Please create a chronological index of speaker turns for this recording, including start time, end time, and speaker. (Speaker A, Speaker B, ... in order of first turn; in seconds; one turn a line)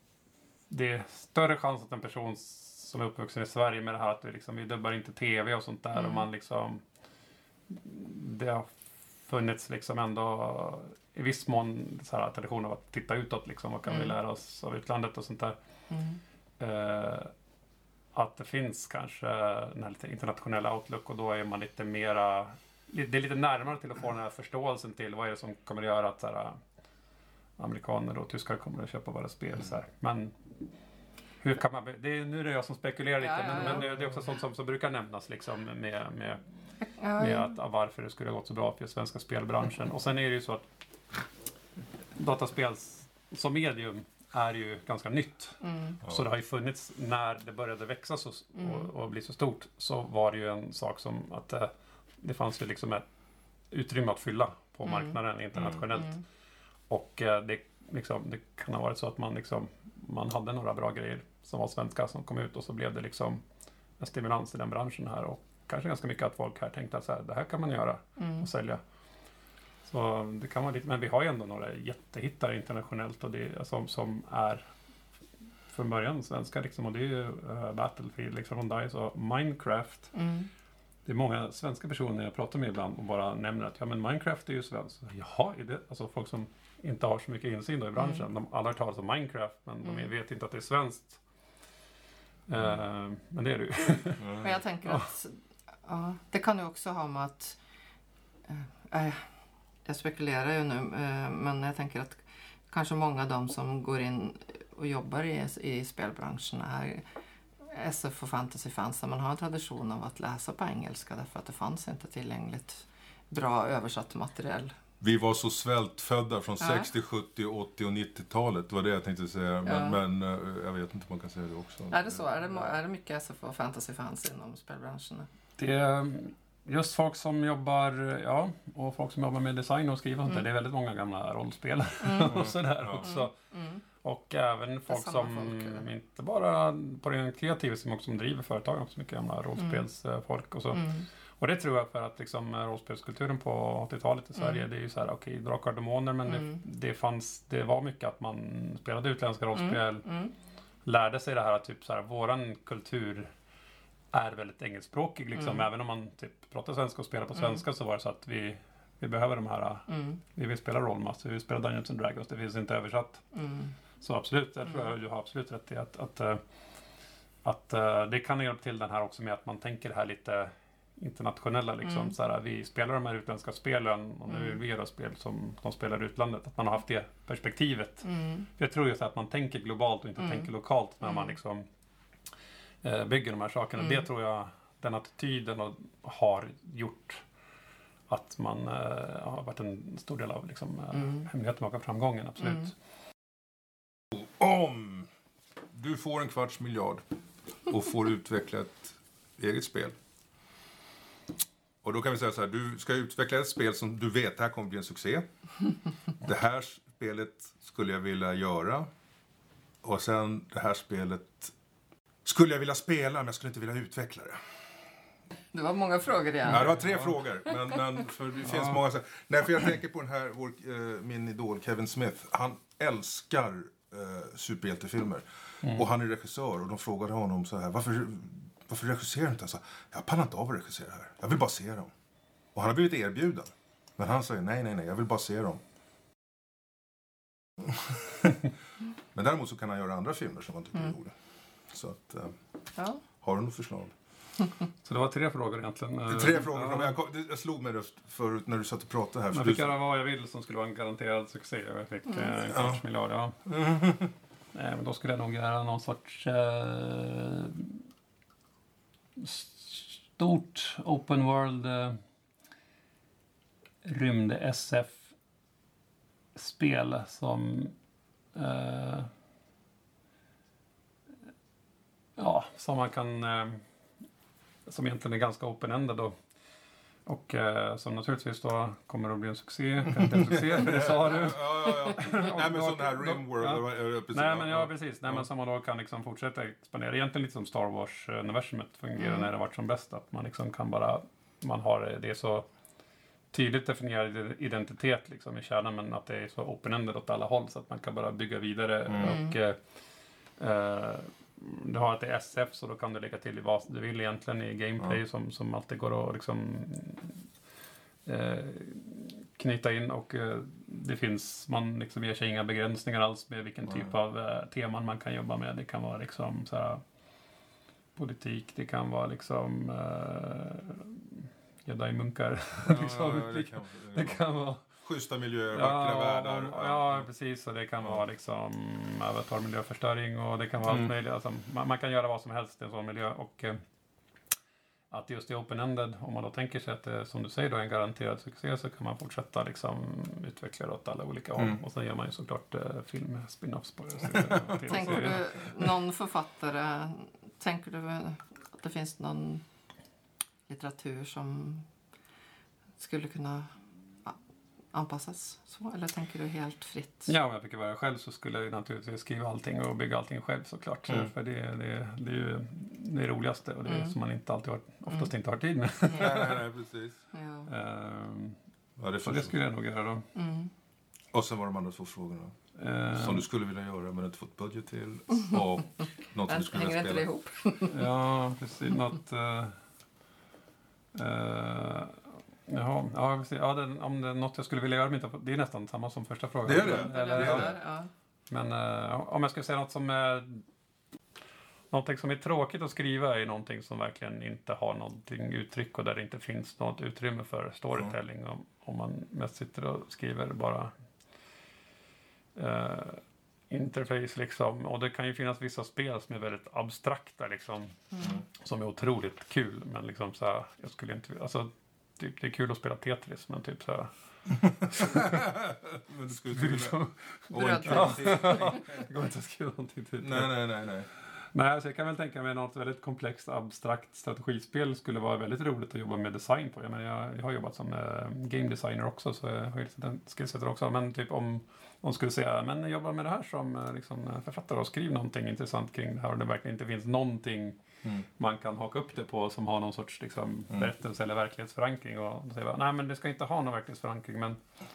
Speaker A: 0.7-6.8
Speaker B: 6.0-6.2
Speaker A: 7.7-8.7
Speaker A: 9.3-15.6
Speaker B: 13.9-14.1
Speaker B: 15.9-16.2
Speaker A: 16.6-17.3
Speaker A: 18.1-26.6
Speaker A: 27.6-30.3
Speaker A: 31.4-36.4
Speaker B: 33.2-33.9
Speaker B: 36.8-37.5
Speaker A: 37.1-40.6
Speaker A: 42.1-53.0
Speaker B: 45.6-46.0
Speaker B: 48.6-48.9
Speaker A: 53.7-56.2
Speaker B: 54.8-55.2
Speaker A: 56.9-63.4
Speaker A: 64.0-68.8
Speaker B: 68.2-68.5
Speaker A: 69.8-74.7
Speaker A: 75.7-80.1
Speaker B: 80.1-80.5
Speaker A: 81.0-91.2
Speaker B: 88.0-88.2
Speaker A: 92.5-95.1
Speaker C: 94.2-94.5
Speaker B: 94.3-97.6
Speaker B: 98.5-99.2
Speaker B: 99.8-107.0
Speaker B: 107.6-114.7
Speaker C: 115.0-122.7
Speaker B: 116.6-116.9
Speaker B: 119.6-120.0
Speaker B: 121.9-125.3
Speaker A: 125.6-133.3
Speaker B: 132.0-132.3
Speaker C: 132.2-133.0
Speaker B: 133.0-133.8
Speaker A: 134.0-150.1
Speaker B: 134.9-135.8
Speaker B: 140.7-141.0
Speaker B: 146.3-146.6
Speaker B: 149.5-150.3
Speaker A: 150.8-153.3
Speaker A: 154.1-163.2
Speaker B: 155.4-155.6
Speaker B: 159.9-160.2
Speaker B: 163.3-163.7
Speaker A: 164.0-166.4
Speaker A: 167.4-181.7
Speaker B: 174.3-174.6
Speaker B: 178.1-178.5
Speaker B: 180.2-180.5
Speaker B: 181.0-181.3
Speaker A: 182.8-187.2
Speaker B: 183.8-184.0
Speaker A: 188.1-192.7
Speaker B: 191.0-191.2
Speaker C: 194.1-195.1
Speaker C: 195.7-197.0
Speaker C: 197.7-199.9
Speaker C: 201.8-205.3
Speaker C: 206.2-208.9
Speaker C: 209.8-211.5
Speaker C: 212.2-214.4
Speaker B: 215.5-216.8
Speaker C: 216.5-231.9
Speaker A: 216.5-217.1
Speaker A: 218.4-218.8
Speaker C: 232.5-235.6
Speaker C: 237.6-238.4
Speaker C: 239.1-241.1
Speaker C: 241.7-242.4
Speaker B: 242.8-243.0
Speaker C: 243.2-243.9
Speaker A: 244.8-246.9
Speaker C: 246.1-249.7
Speaker A: 249.3-253.4
Speaker C: 252.5-252.8
Speaker C: 253.4-254.1
Speaker A: 254.5-257.8
Speaker A: 259.2-262.0
Speaker A: 263.8-265.0
Speaker A: 266.4-267.7
Speaker A: 268.3-269.1
Speaker A: 272.2-273.6
Speaker A: 274.7-276.1
Speaker A: 277.1-292.5
Speaker C: 280.0-285.2
Speaker B: 289.0-289.3
Speaker A: 293.3-299.6
Speaker C: 298.9-299.1
Speaker B: 299.0-299.3
Speaker A: 300.4-307.1
Speaker A: 308.1-316.8
Speaker A: 317.9-324.7
Speaker C: 322.6-324.2
Speaker C: 324.7-327.1
Speaker A: 325.5-333.6
Speaker A: 334.9-345.3
Speaker C: 344.1-345.1
Speaker B: 344.6-349.4
Speaker B: 350.5-351.6
Speaker B: 352.8-353.5
Speaker B: 354.7-357.1
Speaker A: 357.1-366.4
Speaker B: 363.6-363.9
Speaker C: 365.9-367.0
Speaker B: 367.1-367.5
Speaker A: 367.5-368.4
Speaker C: 368.8-369.4
Speaker A: 369.0-370.1
Speaker B: 370.1-370.5
Speaker C: 371.1-372.3
Speaker A: 372.6-373.2
Speaker C: 372.9-377.1
Speaker B: 375.1-375.4
Speaker B: 376.3-377.8
Speaker A: 377.7-379.6
Speaker A: 380.9-387.6
Speaker C: 386.4-387.5
Speaker B: 386.5-387.9
Speaker A: 388.3-390.4
Speaker A: 391.7-400.7
Speaker A: 402.3-407.9
Speaker B: 407.9-408.2
Speaker A: 408.4-413.9
Speaker C: 414.5-416.8
Speaker A: 414.6-415.3
Speaker A: 416.3-420.5
Speaker C: 417.3-418.8
Speaker B: 417.3-418.6
Speaker C: 420.0-420.9
Speaker A: 421.3-437.6
Speaker A: 438.1-444.4